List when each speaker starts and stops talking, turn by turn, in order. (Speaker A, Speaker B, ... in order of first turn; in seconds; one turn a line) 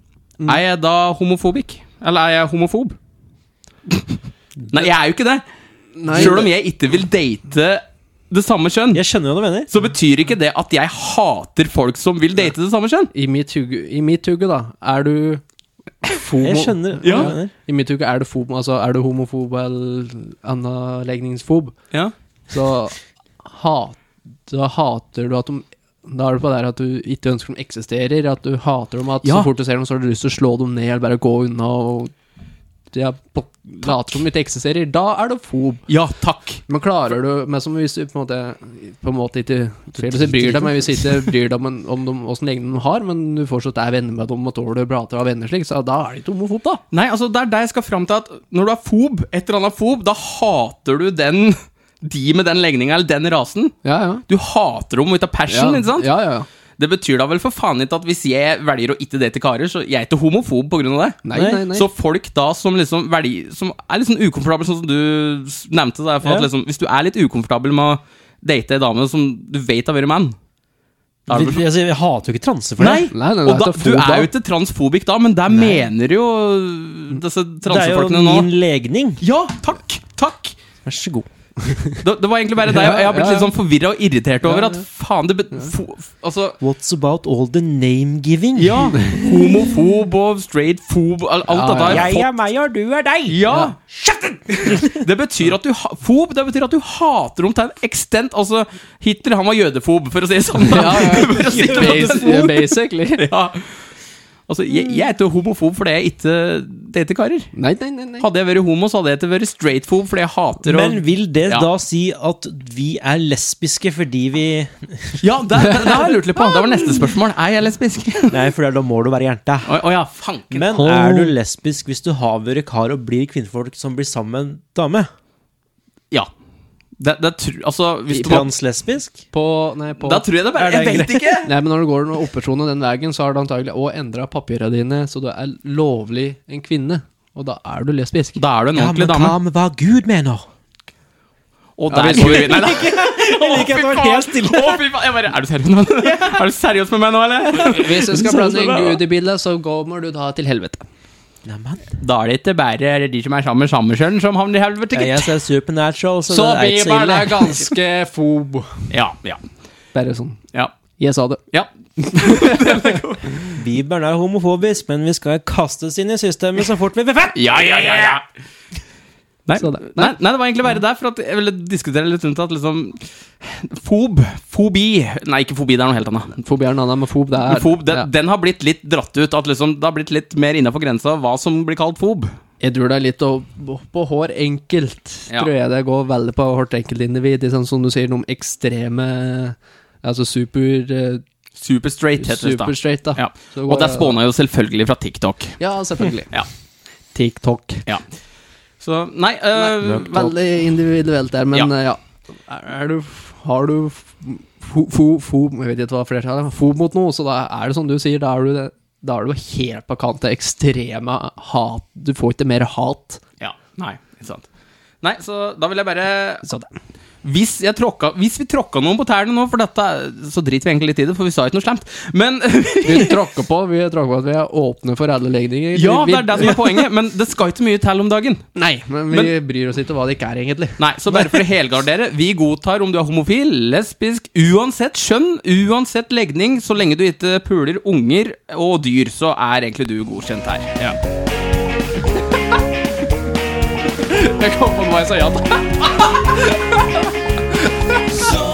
Speaker A: 0.5-3.0
Speaker A: 4.7-5.4
Speaker B: 6.0-6.5
Speaker A: 6.1-9.0
Speaker C: 6.2-6.5
Speaker C: 8.9-9.7
Speaker A: 9.7-13.1
Speaker B: 13.1-15.4
Speaker B: 16.0-21.8
Speaker C: 16.4-17.5
Speaker A: 17.0-17.3
Speaker B: 22.5-24.0
Speaker B: 24.5-32.1
Speaker A: 29.2-29.5
Speaker B: 32.9-35.9
Speaker A: 35.9-36.6
Speaker B: 36.7-46.8
Speaker C: 40.0-41.2
Speaker A: 46.9-53.8
Speaker B: 53.8-54.2
Speaker A: 54.3-56.1
Speaker B: 55.5-56.5
Speaker A: 56.8-70.4
Speaker B: 61.2-61.9
Speaker C: 61.3-61.6
Speaker C: 66.2-66.5
Speaker A: 71.3-71.6
Speaker C: 71.3-73.1
Speaker A: 72.8-78.5
Speaker B: 73.1-74.3
Speaker C: 75.5-75.9
Speaker C: 77.7-79.2
Speaker A: 79.2-80.6
Speaker C: 80.8-81.3
Speaker A: 82.0-86.6
Speaker B: 82.7-83.5
Speaker B: 84.5-84.8
Speaker C: 86.6-89.0
Speaker A: 88.6-92.3
Speaker B: 89.0-89.6
Speaker B: 91.5-92.1
Speaker C: 91.8-95.0
Speaker A: 93.3-93.8
Speaker A: 94.6-103.8
Speaker B: 100.6-103.3
Speaker C: 101.1-102.4
Speaker A: 104.5-107.5
Speaker B: 107.5-108.3
Speaker A: 108.2-111.7
Speaker C: 110.6-115.2
Speaker A: 115.2-118.4
Speaker C: 118.3-119.8
Speaker A: 119.7-120.9
Speaker C: 120.5-125.1
Speaker B: 120.8-121.3
Speaker A: 127.0-128.5
Speaker C: 128.1-129.2
Speaker B: 129.3-130.3
Speaker A: 130.0-131.5
Speaker C: 130.6-131.4
Speaker B: 131.4-138.4
Speaker A: 138.4-139.3
Speaker C: 138.8-140.4
Speaker A: 141.8-148.1
Speaker B: 141.9-142.7
Speaker C: 142.1-144.8
Speaker C: 146.0-146.4
Speaker B: 147.5-150.8
Speaker C: 148.1-149.0
Speaker C: 151.4-152.0
Speaker A: 152.0-155.3
Speaker C: 154.9-157.7
Speaker B: 156.3-158.9
Speaker A: 158.9-159.4
Speaker B: 159.9-160.4
Speaker B: 161.0-161.4
Speaker A: 161.5-163.3
Speaker B: 162.1-163.0
Speaker C: 163.5-168.2
Speaker A: 167.3-168.2
Speaker A: 169.5-176.4
Speaker B: 169.6-170.2
Speaker B: 176.4-178.1
Speaker A: 177.4-182.3
Speaker B: 182.6-191.2
Speaker A: 191.6-195.6
Speaker B: 192.2-194.2
Speaker B: 195.6-196.3
Speaker B: 197.1-197.8
Speaker A: 198.8-200.3
Speaker B: 199.6-213.2
Speaker C: 199.8-200.3
Speaker A: 213.4-214.5
Speaker A: 215.0-216.5
Speaker A: 217.2-223.2
Speaker B: 222.8-226.8
Speaker A: 225.7-228.4
Speaker B: 228.6-231.4
Speaker A: 230.8-240.9
Speaker B: 244.0-248.4